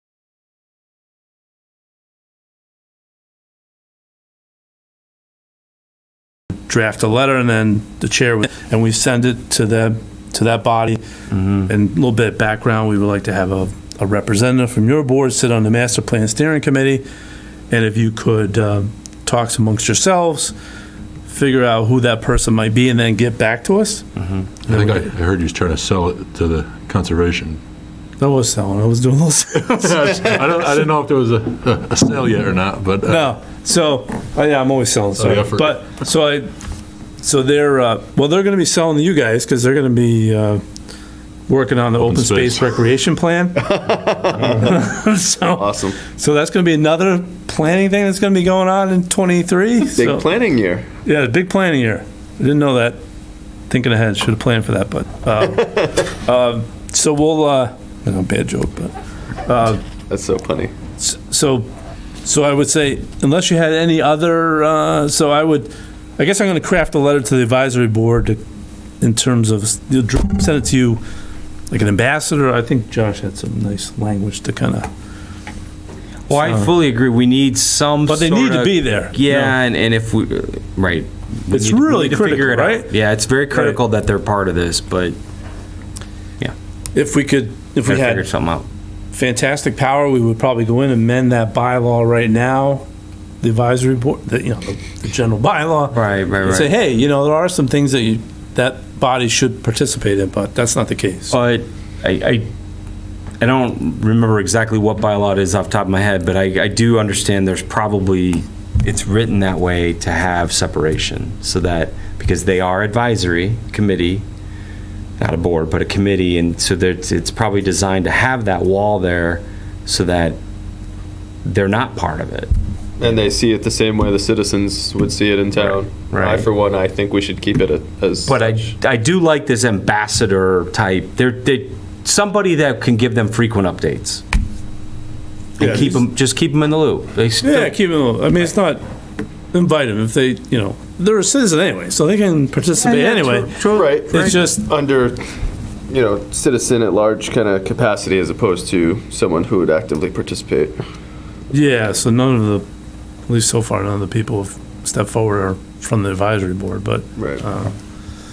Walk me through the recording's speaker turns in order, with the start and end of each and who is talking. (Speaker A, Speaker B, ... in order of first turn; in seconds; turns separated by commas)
Speaker A: 6.7-11.0, Speaker A: 11.6-17.0, Speaker A: 17.7-20.5, Speaker A: 21.2-24.1, Speaker B: 24.2-24.5, Speaker A: 24.7-24.9, Speaker C: 24.7-27.6, Speaker A: 28.2-30.3, Speaker C: 29.7-33.3, Speaker A: 33.1-36.5, Speaker C: 35.2-35.8, Speaker A: 37.2-40.6, Speaker A: 41.5-43.8, Speaker C: 42.0-42.7, Speaker D: 43.7-44.6, Speaker A: 44.3-50.2, Speaker D: 45.5-46.0, Speaker D: 49.9-50.9, Speaker A: 51.0-53.0, Speaker A: 53.7-58.9, Speaker A: 59.5-59.8, Speaker D: 60.1-60.7, Speaker A: 61.0-61.7, Speaker A: 62.2-68.4, Speaker A: 69.0-71.0, Speaker A: 71.7-74.9, Speaker B: 76.3-85.2, Speaker A: 76.3-76.7, Speaker A: 78.1-79.5, Speaker A: 81.5-82.9, Speaker A: 83.5-83.8, Speaker A: 86.9-88.2, Speaker B: 87.8-88.7, Speaker A: 89.1-92.8, Speaker A: 93.4-101.3, Speaker B: 95.9-96.7, Speaker B: 101.3-102.5, Speaker B: 103.4-114.2, Speaker B: 115.2-120.4, Speaker B: 121.4-122.5, Speaker D: 123.0-128.7, Speaker B: 126.1-126.5, Speaker B: 128.2-134.2, Speaker D: 135.6-136.0, Speaker B: 135.6-137.7, Speaker A: 137.4-138.8, Speaker A: 139.5-143.6, Speaker B: 142.8-144.3, Speaker D: 143.7-145.2, Speaker A: 144.1-144.7, Speaker D: 145.9-150.8, Speaker A: 151.5-152.7, Speaker A: 153.3-157.7, Speaker D: 157.2-157.4